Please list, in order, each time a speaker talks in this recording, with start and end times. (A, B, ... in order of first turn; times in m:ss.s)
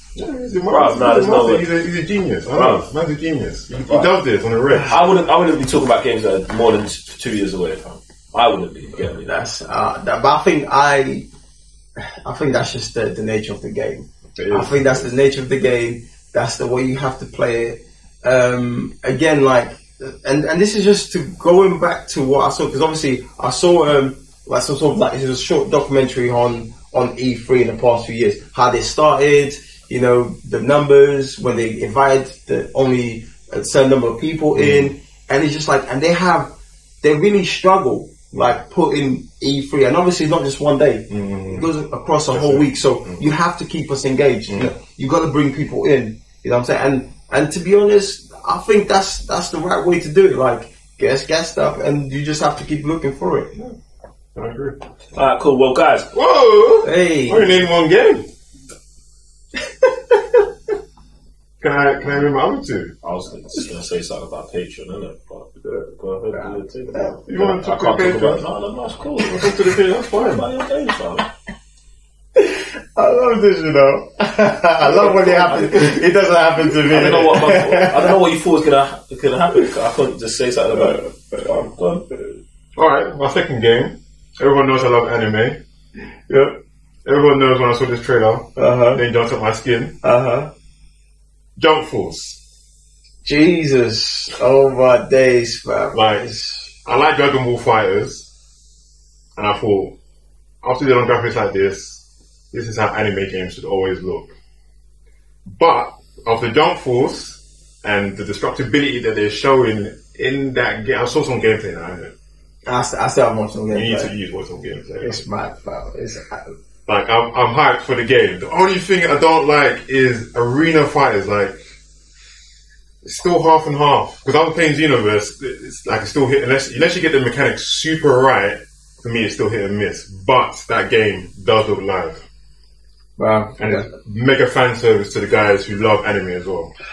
0:00.2-0:05.0 A
0:00.7-0:01.6 B
0:02.5-0:02.9 B
0:03.7-0:04.1 B
0:04.9-0:09.3 B
0:09.0-0:11.3 C
0:12.2-0:53.5 C
0:14.4-0:15.1 A
0:34.6-0:34.9 A
0:41.1-0:41.7 A
0:42.3-0:43.2 A
0:54.4-0:54.8 A
0:55.2-0:56.1 B
0:56.1-0:58.3 A
0:56.8-0:57.6 C
0:59.8-1:00.4 C
1:01.6-1:03.0 A
1:03.0-1:11.2 B
1:06.3-1:07.2 C
1:07.3-1:08.5 A
1:09.4-1:10.5 A
1:12.4-1:18.2 C
1:14.9-1:16.0 B
1:16.8-1:22.1 B
1:20.8-1:21.5 C
1:22.8-1:25.6 A
1:26.3-1:26.6 C
1:27.0-1:30.0 A
1:28.6-1:29.0 C
1:30.0-1:30.5 C
1:31.6-1:32.4 A
1:33.2-1:36.8 C
1:35.9-1:36.2 A
1:36.8-1:38.3 A
1:39.4-1:40.0 A
1:40.6-1:44.3 A
1:45.5-1:52.1 A
1:52.7-1:54.1 C
1:53.7-1:55.2 A
1:55.0-1:56.5 C
1:56.9-2:01.7 A
2:03.0-2:12.2 A
2:13.2-2:13.9 C
2:13.6-2:16.7 A